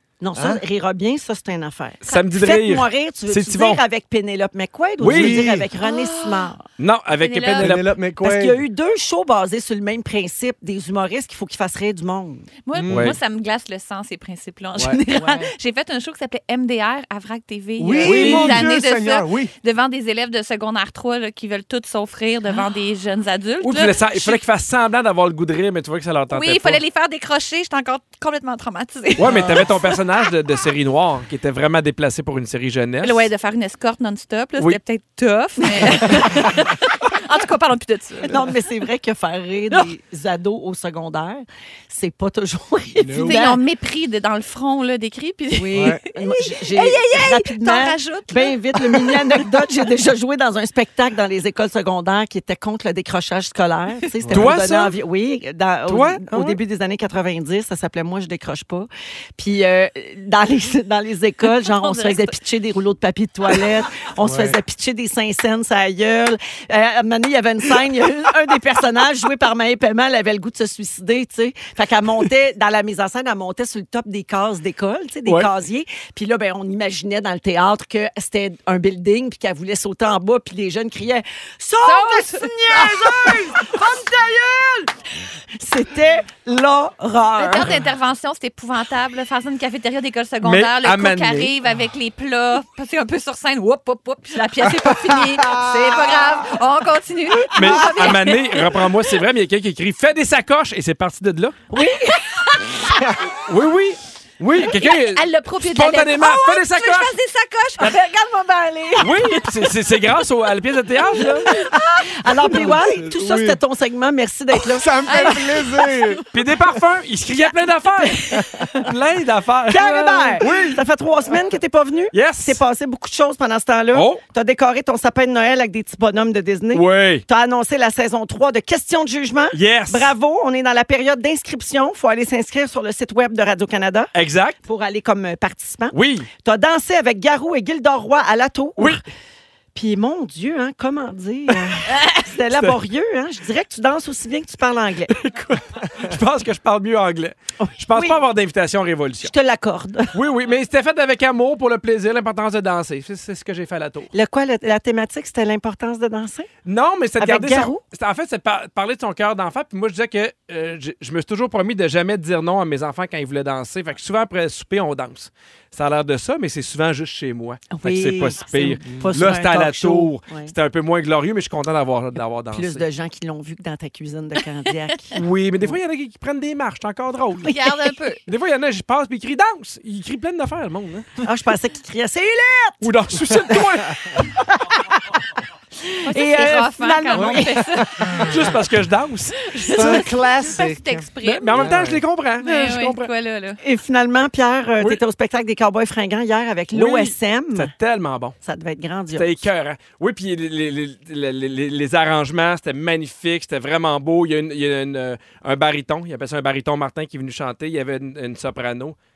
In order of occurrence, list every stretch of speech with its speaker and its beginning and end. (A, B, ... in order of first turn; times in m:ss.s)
0:00.2-0:06.6 A
0:00.3-0:00.6 B
0:02.0-0:03.8 C
0:05.0-0:05.7 B
0:05.0-0:05.5 C
0:05.8-0:06.5 D
0:06.8-0:07.9 C
0:07.2-0:07.8 D
0:07.6-0:08.6 B
0:08.2-0:12.5 A
0:12.6-0:24.4 D
0:12.7-0:13.2 B
0:12.9-0:13.2 C
0:14.8-0:15.0 B
0:15.1-0:15.5 A
0:17.8-0:19.5 B
0:18.0-0:18.6 C
0:23.6-0:26.8 C
0:26.3-0:29.8 D
0:29.2-0:33.3 C
0:29.2-0:29.7 B
0:33.0-0:38.6 D
0:38.2-0:43.6 A
0:43.0-0:43.4 B
0:43.2-0:49.1 D
0:45.5-1:24.9 A
0:45.7-0:46.0 B
0:54.2-0:54.5 B
0:54.3-0:55.0 C
0:55.9-0:56.6 C
1:01.6-1:02.3 D
1:04.2-1:04.6 B
1:21.8-1:22.8 D
1:23.0-1:23.3 B
1:25.6-1:27.8 A
1:27.4-1:39.1 D
1:30.4-1:31.5 C
1:34.7-1:36.4 B
1:37.6-1:41.6 C
1:41.7-1:42.7 A
1:41.8-1:42.9 D
1:43.5-1:47.1 C
1:44.6-1:48.1 D
1:47.8-1:49.1 A
1:49.0-1:51.5 C
1:51.4-1:52.0 D
1:52.1-1:55.3 A
1:52.4-1:53.6 B
1:54.5-1:56.2 B
1:55.1-1:56.3 D
1:56.3-1:58.3 C
1:58.0-1:58.5 D
1:58.8-2:00.5 C
1:59.7-2:14.1 A
2:00.4-2:00.8 B
2:02.1-2:02.6 C
2:03.9-2:04.2 C
2:06.7-2:07.2 C
2:09.5-2:10.1 C
2:14.1-2:14.6 C
2:14.6-2:19.0 A
2:15.9-2:16.3 C
2:19.8-2:25.2 A
2:25.1-2:29.3 C
2:27.6-2:28.2 A
2:29.2-2:30.2 A
2:30.1-2:34.1 C
2:34.1-2:36.5 A
2:36.6-2:52.8 C
2:37.2-2:37.8 A
2:47.7-2:50.5 A
2:52.5-2:55.2 A
2:55.1-2:57.6 C
2:57.5-2:57.8 A
2:57.5-2:58.2 D
2:58.3-3:01.1 C
3:01.2-3:02.9 A
3:02.8-3:04.0 C
3:04.2-3:04.8 A
3:05.8-3:08.2 A
3:06.1-3:08.3 D
3:07.2-3:08.4 B
3:08.2-3:10.1 C
3:09.5-3:11.7 D
3:09.6-3:12.0 B
3:11.2-3:13.1 C
3:12.4-3:13.6 D
3:13.6-3:17.7 A
3:16.7-3:18.4 C
3:18.4-3:19.4 A
3:19.1-3:29.0 C